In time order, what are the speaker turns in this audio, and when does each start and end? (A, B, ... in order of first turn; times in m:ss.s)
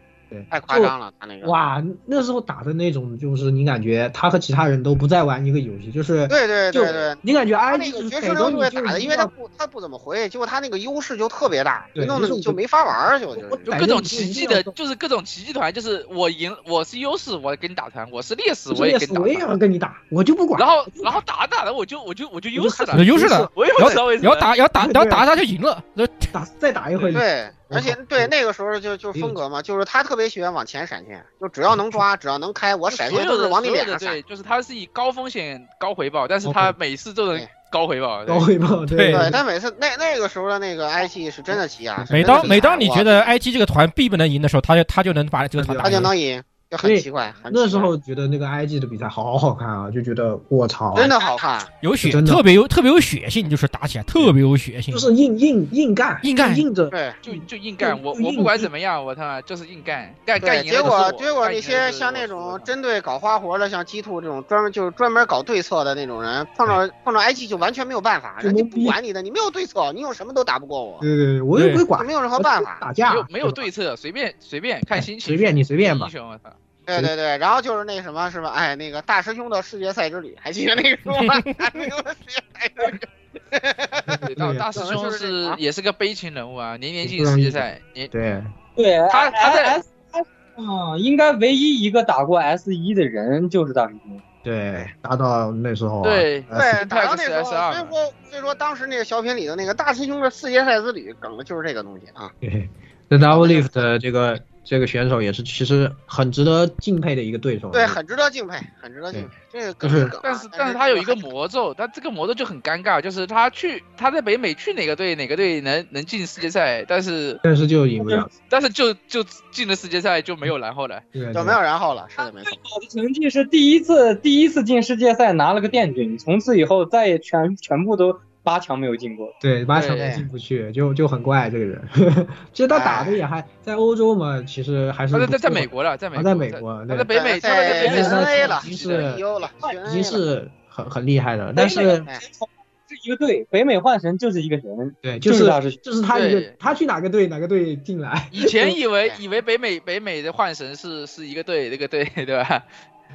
0:00.3-0:09.3 A
0:00.5-0:01.5 B
0:06.3-0:13.7 B
0:12.0-0:12.6 A
0:13.3-0:14.7 A
0:13.7-0:19.5 C
0:18.7-0:21.2 A
0:20.6-0:24.5 C
0:22.5-0:23.5 A
0:22.9-0:26.3 D
0:24.8-0:25.2 A
0:26.3-0:28.3 A
0:27.1-0:34.2 B
0:31.7-0:32.0 A
0:32.9-0:38.5 C
0:36.4-0:36.7 A
0:38.3-0:39.4 A
0:38.9-0:39.3 D
0:39.1-0:43.3 B
0:42.0-0:42.6 A
0:42.1-0:46.1 D
0:45.6-0:46.1 A
0:45.8-0:47.9 B
0:46.8-0:51.1 A
0:50.9-0:51.7 B
0:51.8-0:55.1 D
0:52.0-0:52.4 A
0:54.9-0:58.7 A
0:56.2-0:56.6 D
0:56.9-0:57.2 B
0:57.2-1:02.7 C
1:00.4-1:11.0 B
1:08.4-1:09.0 A
1:11.0-1:13.6 A
1:11.5-1:11.8 D
1:12.0-1:12.8 B
1:13.0-1:16.6 C
1:14.9-1:16.1 A
1:16.9-1:24.2 B
1:24.1-1:24.7 A
1:24.2-1:28.1 C
1:24.8-1:25.6 B
1:27.0-1:28.5 A
1:28.8-1:34.2 E
1:29.1-1:29.8 C
1:34.4-1:36.8 A
1:36.0-1:37.9 C
1:36.5-1:42.3 B
1:42.4-1:48.0 A
1:43.2-1:43.9 B
1:47.7-1:51.3 B
1:49.8-1:50.1 A
1:50.2-1:57.4 C
1:57.4-1:58.3 A
1:58.0-1:58.3 E
1:58.5-2:01.0 C
2:01.1-2:01.6 A
2:01.3-2:02.6 B
2:02.2-2:09.3 E
2:09.4-2:17.1 A
2:09.7-2:10.1 C
2:10.0-2:10.2 B
2:12.7-2:13.2 B
2:15.1-2:19.2 C
2:17.1-2:20.2 B
2:17.6-2:18.4 E
2:17.8-2:19.2 A
2:19.8-2:22.1 A
2:21.6-2:25.8 E
2:25.0-2:28.8 A
2:26.1-2:26.5 C
2:28.3-2:32.6 C